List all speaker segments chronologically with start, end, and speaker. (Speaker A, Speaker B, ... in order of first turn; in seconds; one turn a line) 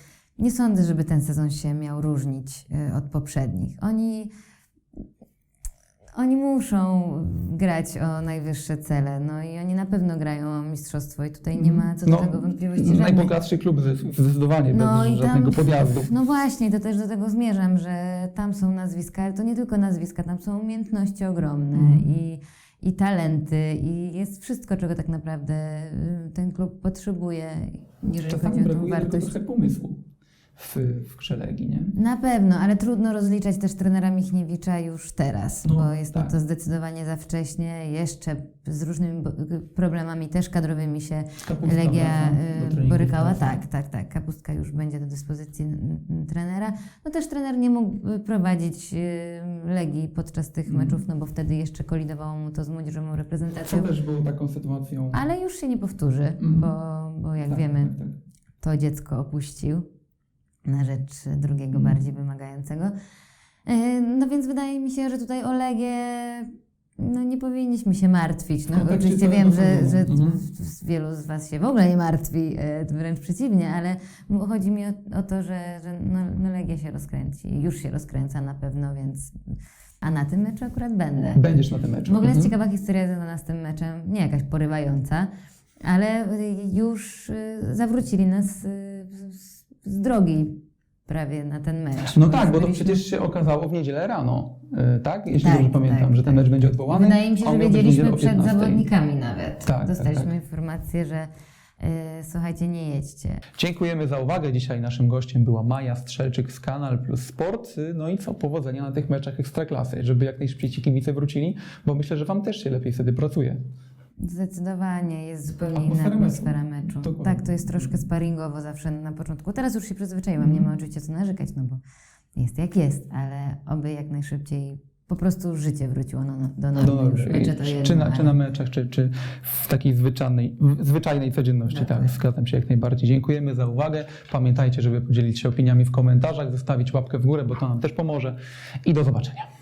Speaker A: 0.4-4.3
Speaker A: 6.2-13.3
Speaker B: 11.5-16.1
Speaker A: 14.7-29.4
Speaker B: 21.7-22.1
Speaker B: 28.2-30.0
Speaker B: 30.6-31.9
Speaker A: 31.9-54.0
Speaker B: 35.6-36.3
Speaker B: 41.4-43.6
Speaker B: 50.7-51.0
Speaker B: 53.6-55.2
Speaker A: 55.1-57.9
Speaker B: 56.4-56.7
Speaker B: 57.5-58.2
Speaker A: 58.6-59.9
Speaker A: 60.6-62.9
Speaker B: 61.7-62.0
Speaker A: 63.6-81.5
Speaker B: 68.7-70.4
Speaker B: 81.3-82.5
Speaker A: 82.0-85.3
Speaker A: 85.8-93.0
Speaker B: 92.0-98.8
Speaker A: 95.3-103.4
Speaker B: 99.7-100.3
Speaker B: 103.6-113.6
Speaker A: 114.2-121.8
Speaker B: 115.6-118.0
Speaker B: 120.4-120.7
Speaker A: 122.3-128.3
Speaker B: 126.7-139.4
Speaker A: 131.7-132.1